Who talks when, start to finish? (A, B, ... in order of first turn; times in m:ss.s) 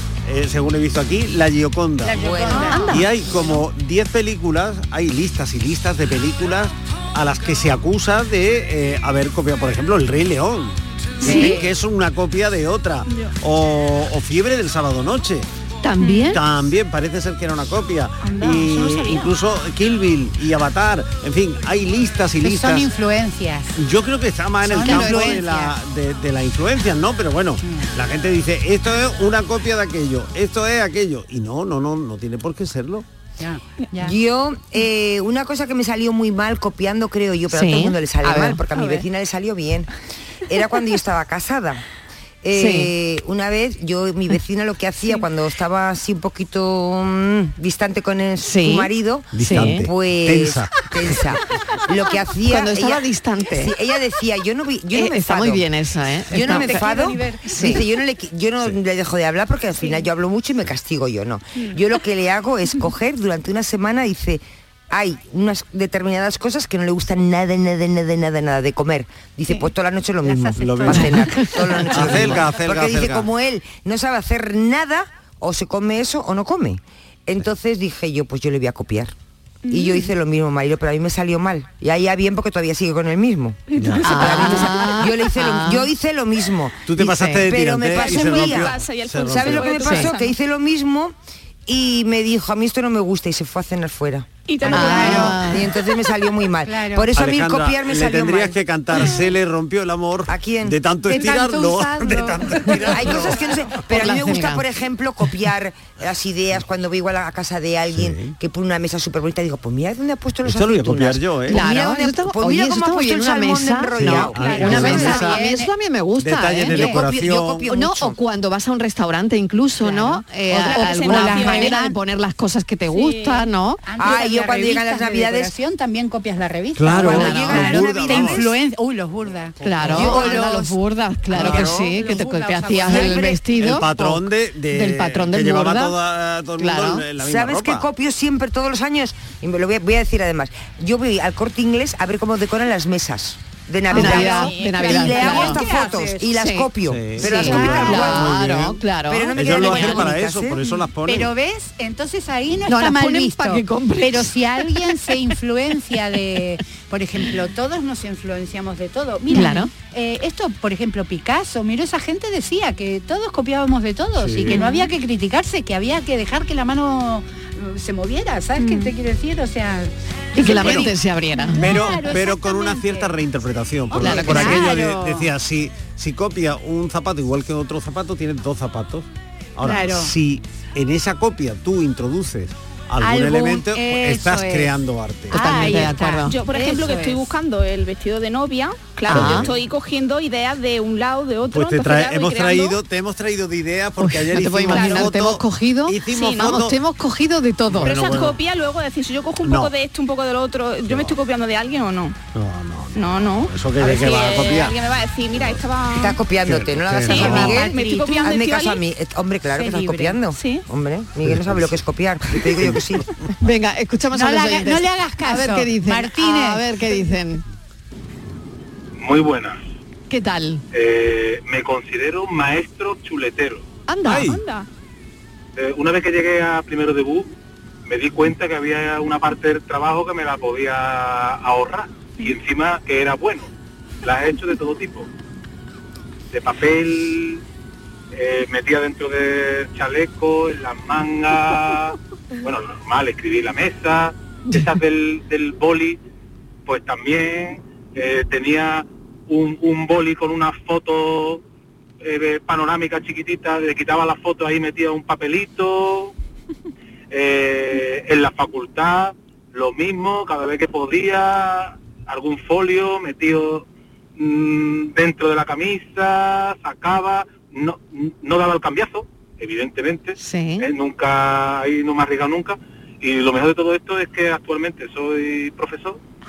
0:00.2-0:02.3 A
0:02.0-0:03.4 B
0:02.1-0:02.8 C
0:02.5-0:02.8 D
0:02.7-0:03.1 E
0:02.9-0:15.4 A
0:11.2-0:11.7 B
0:11.2-0:11.6 E
0:11.2-0:11.6 D
0:13.1-0:13.3 D
0:15.8-0:16.4 E
0:16.0-0:16.3 D
0:16.3-0:22.9 A
0:18.2-0:19.3 D
0:22.4-0:23.7 B
0:23.8-0:33.0 A
0:24.6-0:25.7 B
0:24.7-0:25.4 E
0:27.6-0:27.9 B
0:33.4-0:34.1 B
0:34.0-0:39.9 C
0:37.5-0:38.6 E
0:40.5-0:41.8 C
0:42.4-0:55.7 C
0:42.5-0:42.9 E
0:48.4-0:49.8 E
0:49.3-0:51.2 A
0:52.5-0:53.7 E
0:54.9-0:56.9 E
0:56.3-1:19.1 C
0:56.3-0:57.5 B
0:57.4-0:57.8 E
1:10.2-1:12.2 B
1:10.6-1:11.2 A
1:11.9-1:13.3 A
1:19.6-1:20.1 D
1:19.7-1:31.1 C
1:23.7-1:24.7 D
1:24.0-1:25.9 E
1:26.8-1:29.8 A
1:27.0-1:27.4 E
1:27.9-1:30.4 D
1:29.8-1:30.1 E
1:31.7-1:38.6 C
1:34.5-1:35.4 D
1:34.7-1:35.6 E
1:34.7-1:35.4 B
1:34.9-1:35.3 A
1:36.6-1:37.1 B
1:37.1-1:43.8 A
1:40.3-1:40.8 C
1:41.1-1:43.1 B
1:42.9-1:55.3 C
1:43.9-1:44.6 E
1:47.9-1:48.4 A
1:50.4-1:51.6 A
1:51.5-1:57.0 E
1:54.0-1:55.4 A
1:54.4-1:55.7 B
1:56.2-1:57.7 A
1:56.7-1:58.2 C
1:57.7-2:03.8 E
1:59.8-2:02.0 B
2:00.6-2:01.8 D
2:02.9-2:03.5 D
2:03.8-2:10.7 B
2:04.0-2:05.5 C
2:06.8-2:08.6 A
2:06.9-2:08.0 E
2:09.6-2:10.2 A
2:09.6-2:15.9 E
2:10.0-2:10.6 C
2:11.3-2:13.4 B
2:11.4-2:11.8 C
2:11.4-2:11.7 A
2:12.9-2:13.4 C
2:13.5-2:17.8 A
2:16.6-2:17.0 E
2:17.2-2:28.3 C
2:23.9-2:26.2 D
2:23.9-2:25.7 E
2:26.2-2:30.1 E
2:26.9-2:28.8 A
2:27.3-2:28.0 B
2:29.1-2:30.6 C
2:29.3-2:31.3 A
2:31.0-2:53.1 B
2:32.7-2:35.1 E
2:39.3-2:39.7 E
2:44.2-2:44.6 A
2:44.5-2:44.8 D
2:48.6-2:48.9 D
2:50.4-2:51.7 E
2:51.6-2:59.0 A
2:53.9-2:55.2 B
2:54.0-2:54.8 E
2:59.6-3:05.3 A
2:59.6-3:00.1 B
3:03.0-3:04.7 B
3:05.3-3:06.3 E
3:05.3-3:07.3 B
3:05.3-3:12.8 D
3:09.1-3:09.5 E
3:09.1-3:09.5 A
3:11.5-3:16.8 A
3:14.0-3:18.0 E
3:14.7-3:15.1 D
3:16.1-3:16.6 D
3:17.7-3:18.4 A
3:17.8-3:22.2 D
3:19.4-3:19.7 A
3:20.8-3:21.1 A
3:22.3-3:24.7 A
3:22.9-3:26.2 D
3:25.3-3:25.6 A
3:26.0-3:33.0 C
3:26.4-3:27.6 A
3:27.0-3:28.8 D
3:27.1-3:28.3 B
3:29.5-3:30.2 B
3:30.3-3:30.6 D
3:31.2-3:31.8 A
3:32.4-3:32.8 A
3:33.4-3:37.4 E
3:34.1-3:37.0 B
3:39.0-3:39.6 F
3:40.1-3:40.6 E
3:40.7-3:43.6 F
3:43.9-3:44.4 E
3:44.0-3:44.7 D
3:45.6-3:47.3 F
3:47.9-3:53.5 F
3:54.0-3:55.1 F
3:56.3-3:57.4 F
3:58.1-4:06.0 F
4:06.6-4:11.4 F
4:12.0-4:16.1 F
4:17.1-4:23.6 F
4:24.2-4:36.0 F
4:30.2-4:30.7 E